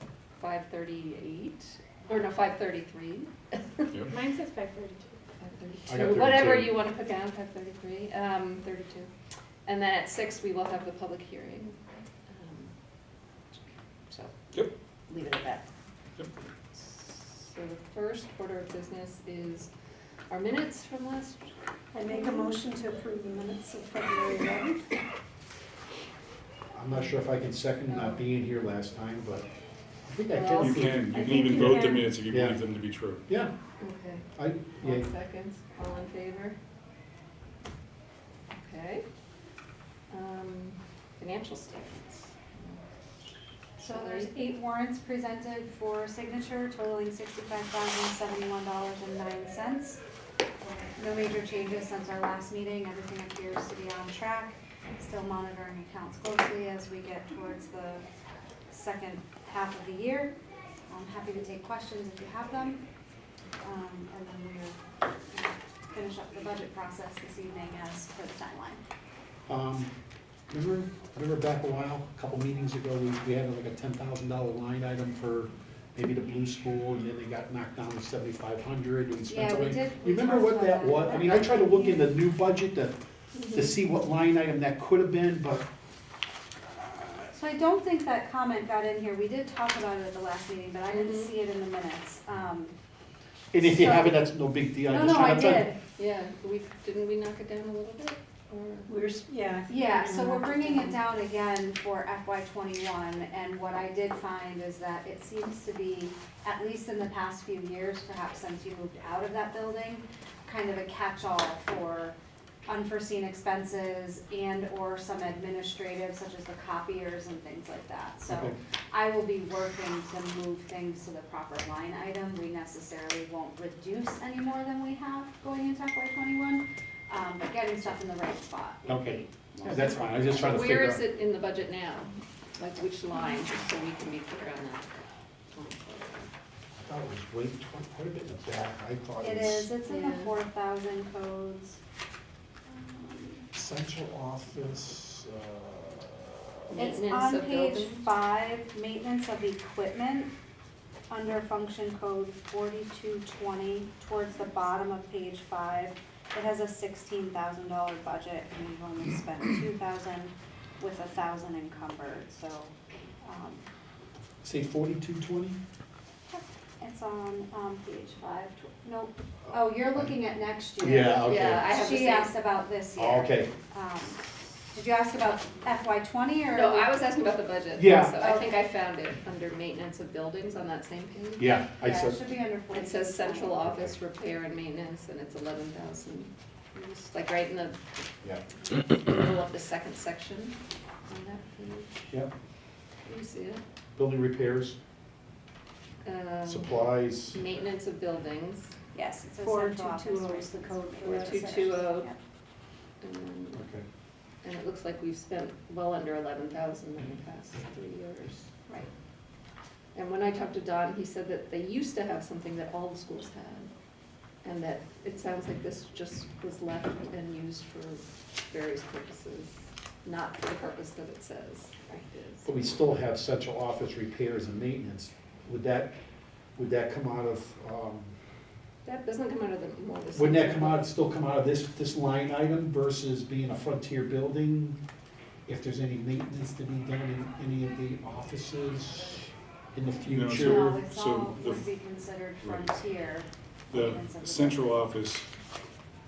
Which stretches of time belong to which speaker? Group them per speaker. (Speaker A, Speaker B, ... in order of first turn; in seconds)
Speaker A: 0.4-3.9, 5.4-9.1, 9.7-12.7, 13.5-14.3, 15.1-15.7, 16.7-19.7, 20.3-21.5, 30.3-30.9, 33.8-34.3, 34.8-36.6, 38.5-39.0, 40.1-42.9, 43.8-44.4, 83.3-83.8, 90.9-91.3, 96.0-98.9, 129.6-136.3, 139.8-140.3, 146.7-148.1, 171.3-172.3, 176.5-181.6, 182.7-187.8, 188.7-191.9, 193.1-193.6, 196.0-198.7, 201.0-202.1, 203.0-203.6, 204.4-208.5, 209.9-213.7, 214.4-222.5, 228.8-230.9
Speaker B: 4.0-5.2, 21.9-24.9, 31.1-32.1, 98.9-100.9, 199.4-201.8
Speaker C: 5.9-6.8, 26.7-29.5, 30.1-31.6, 32.3-32.6, 33.3-33.5, 34.4-35.1, 69.5-69.9, 70.5-83.0, 83.5-85.7, 93.5-95.7, 118.3-118.5, 128.9-131.0, 136.8-139.7, 143.5-146.5, 164.4-165.6, 169.5-170.1, 170.8-171.7, 173.0-173.5, 177.8-178.2, 181.4-182.2, 194.0-194.8, 196.4-197.4, 203.5-203.8, 222.4-225.9, 226.6-228.1, 230.2-234.8, 235.5-240.8
Speaker D: 30.6-33.2, 240.1-241.7, 242.4-242.8, 243.7-245.3
Speaker E: 43.8-50.0, 51.0-58.0, 58.7-60.3, 60.9-62.8, 63.6-64.8, 65.3-68.8, 79.3-82.1, 87.3-92.8, 93.6-94.2, 94.8-95.8, 99.7-130.4, 139.2-141.8, 142.7-143.5, 146.8-150.3, 151.1-163.7, 166.3-174.2, 174.7-176.9, 178.2-178.5, 181.8-183.7, 198.9-202.2, 240.3-244.9